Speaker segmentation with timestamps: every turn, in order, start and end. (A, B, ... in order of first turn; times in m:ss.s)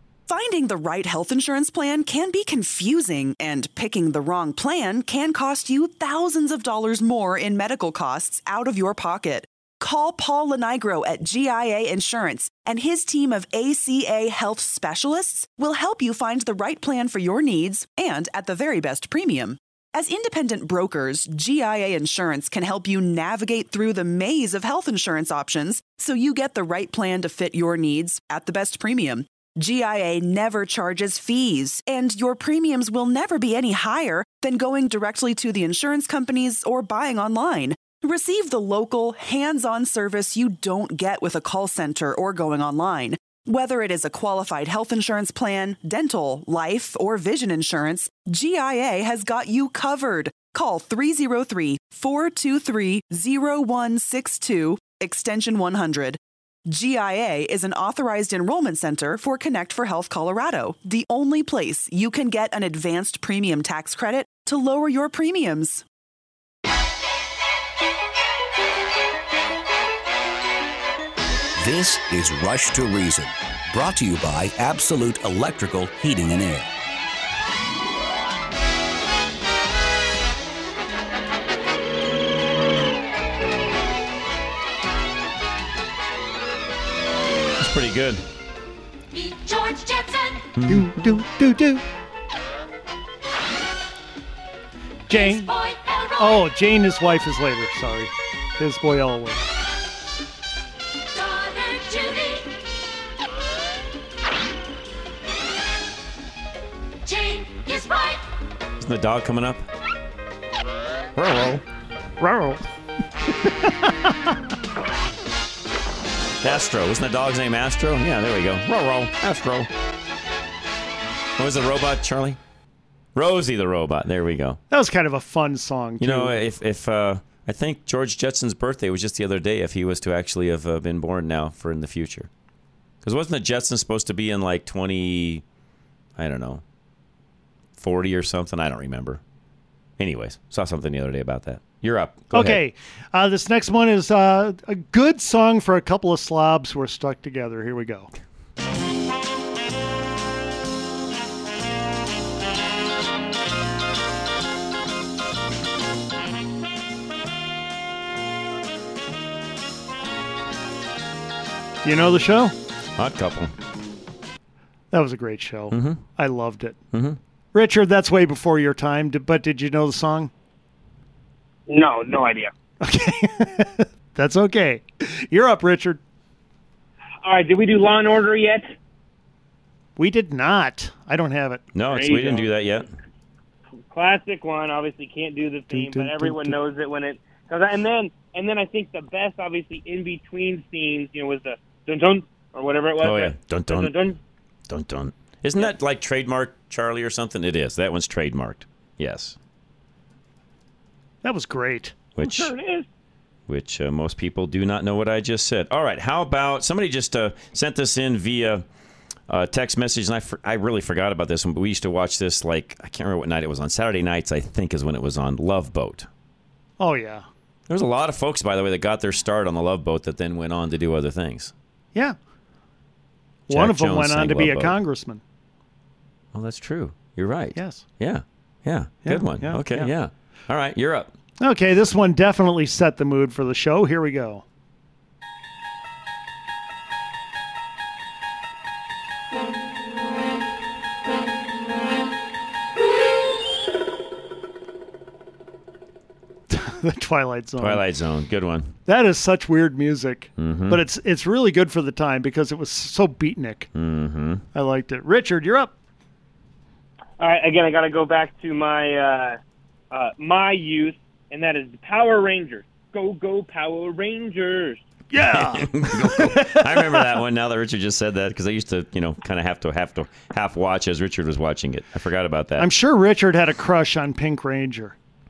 0:00.3-1:05.8 A
1:11.6-1:16.7 B
1:27.6-1:28.2 C
1:29.2-1:30.4 D
1:30.5-1:31.0 C
1:30.7-1:31.8 E
1:35.1-1:35.5 E
1:35.6-1:36.1 D
1:36.2-1:39.4 E
1:41.2-1:42.4 D
1:47.1-1:48.2 D
1:48.8-1:49.6 C
1:51.2-1:51.6 C
1:52.2-1:52.6 E
1:53.4-1:54.1 E
1:56.4-1:59.7 C
2:01.4-2:02.4 C
2:03.1-2:04.6 C
2:04.7-2:06.4 E
2:06.0-2:12.3 C
2:13.0-2:15.4 C
2:16.2-2:16.6 C
2:17.8-2:19.2 C
2:20.0-2:22.6 C
2:22.3-2:28.1 E
2:41.8-2:42.5 E
2:43.0-2:43.5 C
2:44.9-2:46.8 E
2:45.7-2:46.0 C
2:46.9-2:47.2 C
2:47.5-2:50.3 E
2:51.7-2:52.5 F
2:52.8-2:56.0 E
2:57.2-2:58.7 F
3:00.0-3:01.6 E
3:01.7-3:02.9 C
3:01.9-3:02.5 F
3:03.9-3:14.2 F
3:05.7-3:06.6 E
3:13.0-3:13.9 C
3:14.7-3:19.4 C
3:21.2-3:22.5 E
3:22.2-3:22.5 C
3:22.5-3:22.9 F
3:23.5-3:28.6 C
3:29.3-3:36.1 C
3:36.8-3:37.2 E
3:37.7-3:41.5 C
3:43.5-3:45.2 E
3:43.5-3:44.8 C
3:46.3-3:51.1 C
3:47.5-3:47.8 E
3:49.0-3:49.9 E
3:51.4-3:54.4 E
4:06.5-4:07.8 E
4:07.6-4:08.7 C
4:08.9-4:13.7 E
4:10.4-4:10.8 C
4:13.7-4:14.4 C
4:14.5-4:15.7 E
4:17.2-4:19.4 F
4:19.9-4:24.8 F
4:25.1-4:27.0 E
4:25.2-4:32.7 C
4:32.6-4:34.9 E